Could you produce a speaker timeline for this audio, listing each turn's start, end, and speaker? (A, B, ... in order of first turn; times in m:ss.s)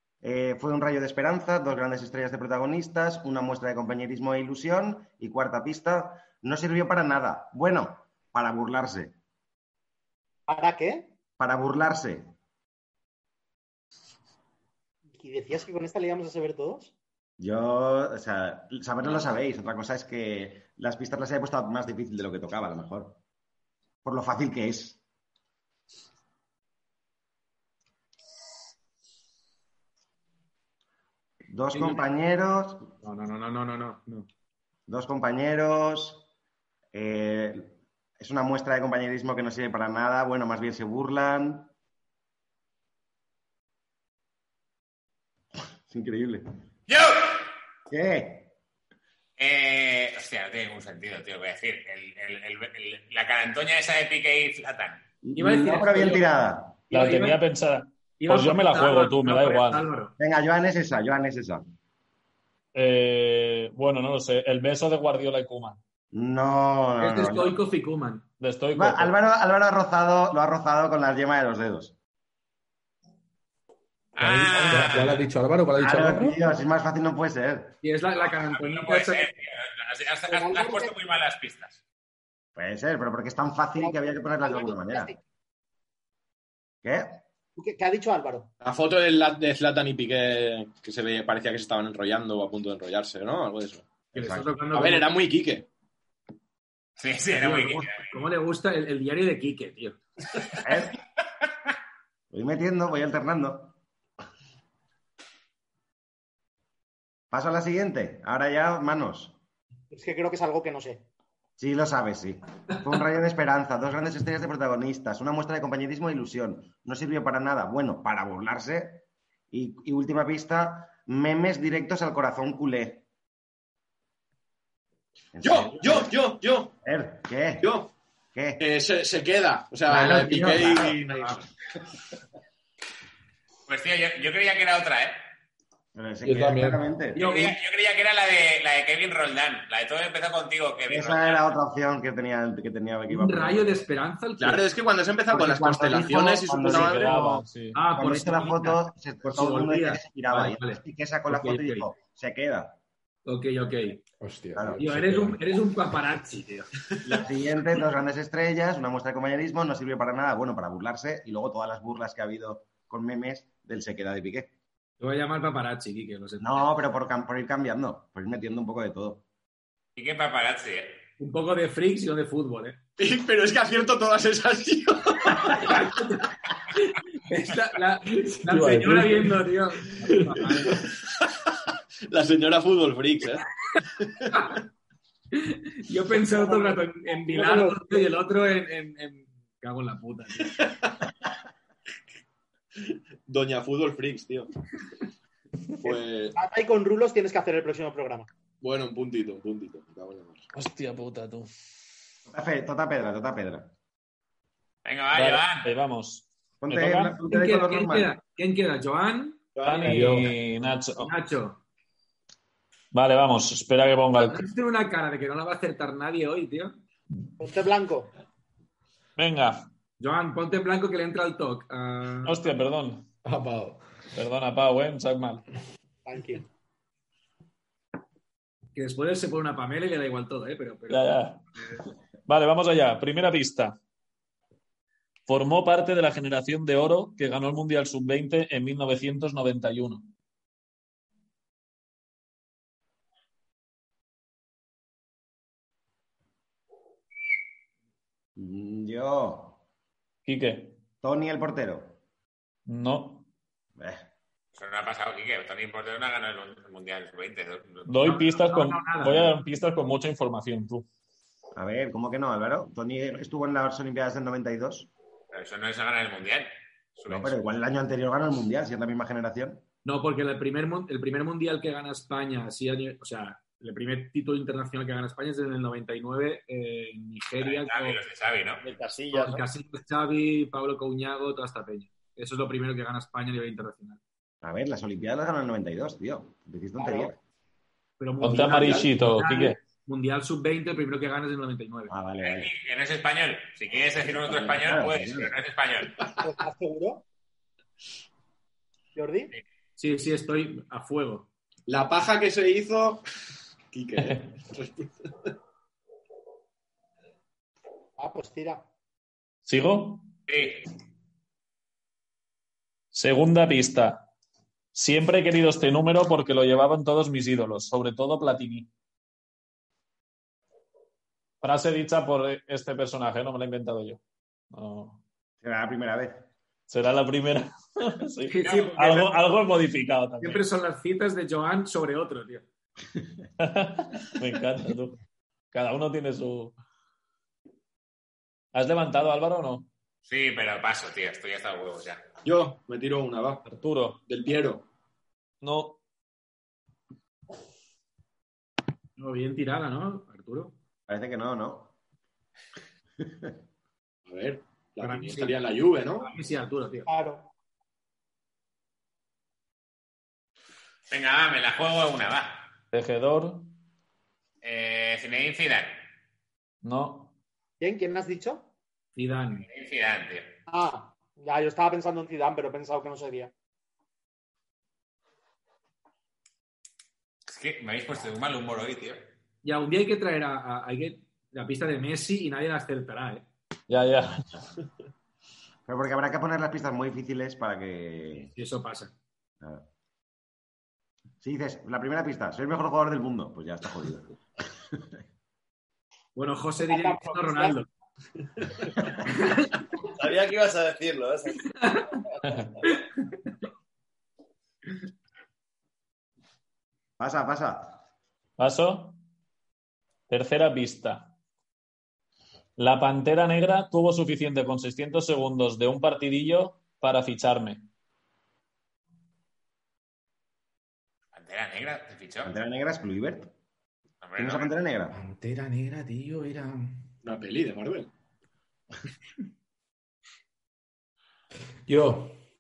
0:00.2-0:09.2 A
0:10.5-0:11.1 B
0:11.4-0:12.3 A
0:15.2-0:16.9 B
0:17.4-0:23.2 A
0:24.0-0:25.0 A
0:31.5-0:32.9 A
0:31.7-0:32.0 C
0:33.0-0:34.3 C
0:34.9-0:36.3 A
0:36.9-0:41.7 A
0:45.9-0:46.5 A
0:46.9-0:47.5 D
0:47.9-0:48.5 A
0:49.4-0:55.0 D
0:55.2-0:56.8 A
0:55.4-0:56.3 C
0:56.9-0:57.4 C
0:56.9-0:59.9 E
0:58.2-1:00.1 C
1:00.2-1:01.6 A
1:02.8-1:05.8 E
1:06.1-1:07.6 A
1:07.0-1:08.3 C
1:08.4-1:09.1 E
1:08.7-1:11.9 A
1:14.2-1:15.2 D
1:14.2-1:16.4 F
1:15.8-1:17.8 A
1:17.8-1:19.3 C
1:18.2-1:21.8 D
1:20.3-1:20.9 B
1:22.6-1:25.1 A
1:23.8-1:25.2 B
1:26.8-1:27.2 A
1:27.6-1:28.5 B
1:28.6-1:33.9 G
1:34.1-1:34.5 A
1:34.2-1:35.1 C
1:34.7-1:35.7 G
1:37.0-1:38.1 D
1:37.3-1:40.0 C
1:40.6-1:41.0 A
1:42.3-1:43.8 A
1:47.3-1:49.4 A
1:49.9-1:51.0 B
1:51.6-2:03.0 A
2:05.4-2:06.1 A
2:05.4-2:06.7 G
2:06.8-2:07.7 A
2:07.6-2:07.9 G
2:08.4-2:08.6 A
2:08.6-2:11.5 G
2:09.9-2:11.0 A
2:13.7-2:15.2 D
2:16.0-2:17.2 A
2:16.2-2:16.8 F
2:17.2-2:21.4 D
2:17.2-2:17.6 C
2:20.9-2:23.8 A
2:23.1-2:24.7 C
2:24.4-2:27.2 G
2:26.5-2:26.9 A
2:26.5-2:27.8 E
2:26.7-2:31.9 C
2:28.0-2:32.8 A
2:33.3-2:34.0 C
2:34.2-2:35.4 F
2:34.6-2:35.1 A
2:34.8-2:36.6 C
2:37.1-2:44.5 A
2:45.0-2:46.6 C
2:46.4-2:49.2 A
2:50.0-2:51.0 D
2:51.2-2:52.8 C
2:53.0-2:55.6 G
2:55.4-2:56.3 C
2:56.9-3:00.8 C
2:58.5-2:59.4 F
3:00.7-3:01.0 G
3:02.1-3:03.4 G
3:05.4-3:10.6 C
3:06.3-3:08.1 B
3:10.5-3:10.7 G
3:12.8-3:14.5 G
3:15.8-3:16.4 G
3:15.9-3:18.3 B
3:18.6-3:20.4 G
3:20.5-3:21.5 E
3:22.3-3:23.7 A
3:24.8-3:25.7 D
3:25.1-3:27.2 E
3:26.6-3:28.2 A
3:27.2-3:30.3 C
3:29.6-3:30.1 G
3:29.7-3:31.1 E
3:31.0-3:31.6 C
3:32.9-3:34.4 E
3:34.2-3:36.8 C
3:37.4-3:38.1 B
3:39.2-3:39.7 E
3:40.0-3:42.6 C
3:42.2-3:43.1 E
3:43.2-3:43.8 F
3:44.2-3:45.4 E
3:46.1-3:46.4 B
3:48.8-3:51.2 C
3:50.9-3:51.4 E
3:52.3-3:53.8 E
3:55.3-4:00.1 E
4:08.4-4:09.6 A
4:10.3-4:10.8 E
4:11.0-4:12.0 A
4:12.7-4:13.3 E
4:13.8-4:14.1 A
4:14.5-4:17.9 D
4:17.9-4:20.9 E
4:18.0-4:19.4 C
4:21.6-4:24.9 A
4:25.3-4:27.5 D
4:27.1-4:29.6 A
4:29.8-4:38.0 C
4:37.4-4:38.6 D
4:38.6-4:39.4 H
4:39.1-4:44.0 C
4:44.4-4:47.2 A
4:46.8-4:47.1 B
4:48.0-4:51.9 C
4:48.2-4:49.6 E
4:51.9-4:52.5 A
4:52.2-4:56.0 D
4:54.5-4:55.3 A
4:56.2-4:57.0 B
4:59.0-4:59.3 B
4:59.8-5:01.3 C
5:01.7-5:03.0 G
5:03.7-5:05.3 G
5:08.0-5:08.6 B
5:09.5-5:10.1 E
5:10.3-5:10.6 D
5:12.9-5:14.1 E
5:14.7-5:18.7 E
5:21.4-5:24.0 E
5:24.5-5:25.0 E
5:25.4-5:26.3 A
5:26.7-5:30.4 E
5:28.3-5:29.4 C
5:30.2-5:32.5 C
5:33.4-5:35.0 E
5:35.5-5:36.6 E
5:38.5-5:39.7 E
5:40.1-5:42.0 D
5:42.2-5:43.4 G
5:43.4-5:44.0 E
5:44.1-5:44.6 G
5:45.4-5:45.8 E
5:49.0-5:50.6 C
5:50.9-5:51.7 A
5:53.0-5:53.3 A
5:54.1-5:56.1 G
5:54.8-5:56.9 C
5:56.9-5:57.3 B
6:00.9-6:02.5 D
6:02.7-6:03.5 E
6:04.4-6:05.8 D
6:06.6-6:07.1 E
6:07.6-6:08.5 B
6:09.0-6:09.5 C
6:09.4-6:10.3 D
6:10.5-6:13.3 B
6:17.3-6:19.1 D
6:19.4-6:23.3 C
6:23.7-6:24.3 E
6:25.7-6:28.3 A
6:28.3-6:28.9 C
6:29.4-6:29.7 A
6:31.2-6:34.2 A
6:36.2-6:37.7 C
6:36.7-6:37.6 B
6:39.1-6:39.5 C
6:39.9-6:41.4 H
6:41.5-6:41.9 C
6:47.0-6:47.8 A
6:48.4-6:49.0 E
6:50.1-6:51.1 E
6:52.6-6:57.7 E
7:01.1-7:02.3 D
7:02.2-7:03.3 A
7:04.0-7:04.5 D
7:04.2-7:05.0 A
7:04.9-7:06.8 F
7:07.0-7:07.9 G
7:11.7-7:12.2 F